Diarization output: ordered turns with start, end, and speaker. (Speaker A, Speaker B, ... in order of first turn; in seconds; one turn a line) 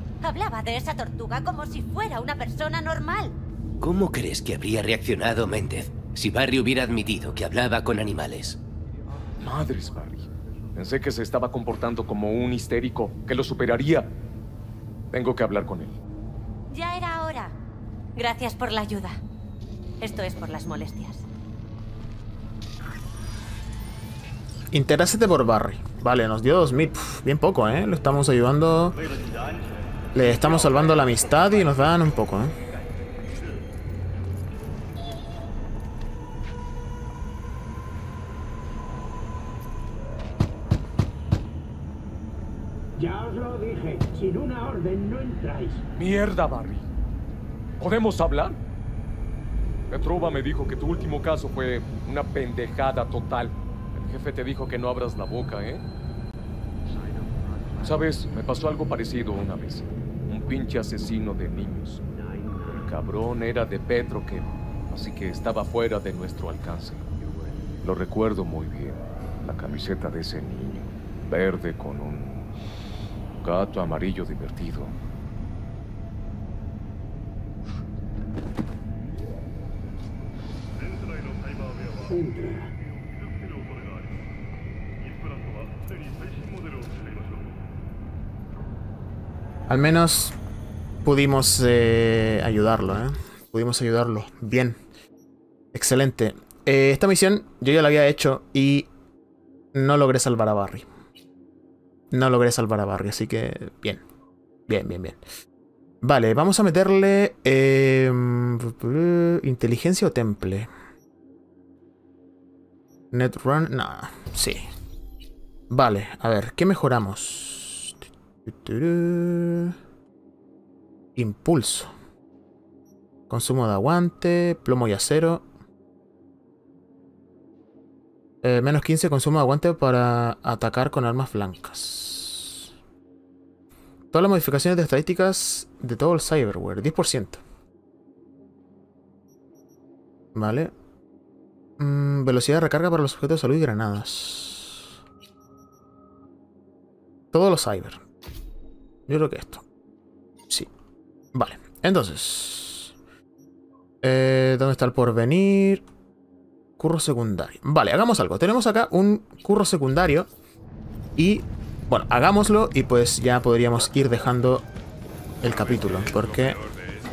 Speaker A: 0.2-3.3
Speaker B: 3.8-8.6
Speaker C: 9.4-14.1
Speaker C: 15.1-15.9
Speaker A: 16.7-17.5
Speaker A: 18.1-19.2
Speaker A: 20.0-21.2
Speaker D: 24.7-29.0
Speaker D: 30.1-32.5
Speaker E: 43.0-45.8
Speaker C: 46.0-46.9
Speaker C: 47.8-48.6
Speaker C: 49.9-55.8
Speaker C: 57.8-62.0
Speaker C: 62.7-67.0
Speaker C: 67.8-72.5
Speaker C: 73.4-74.9
Speaker E: 82.0-82.7
Speaker D: 89.7-90.3
Speaker D: 91.0-94.8
Speaker D: 95.7-98.9
Speaker D: 99.7-100.9
Speaker D: 102.1-104.0
Speaker D: 104.7-105.2
Speaker D: 106.0-110.7
Speaker D: 113.1-114.7
Speaker D: 115.7-119.8
Speaker D: 121.2-121.9
Speaker D: 123.3-125.4
Speaker D: 128.4-132.7
Speaker D: 134.1-137.4
Speaker D: 140.3-140.7
Speaker D: 141.8-144.9
Speaker D: 147.3-148.0
Speaker D: 149.1-149.6
Speaker D: 151.3-152.9
Speaker D: 154.0-155.8
Speaker D: 156.8-160.3
Speaker D: 161.2-164.7
Speaker D: 165.4-166.6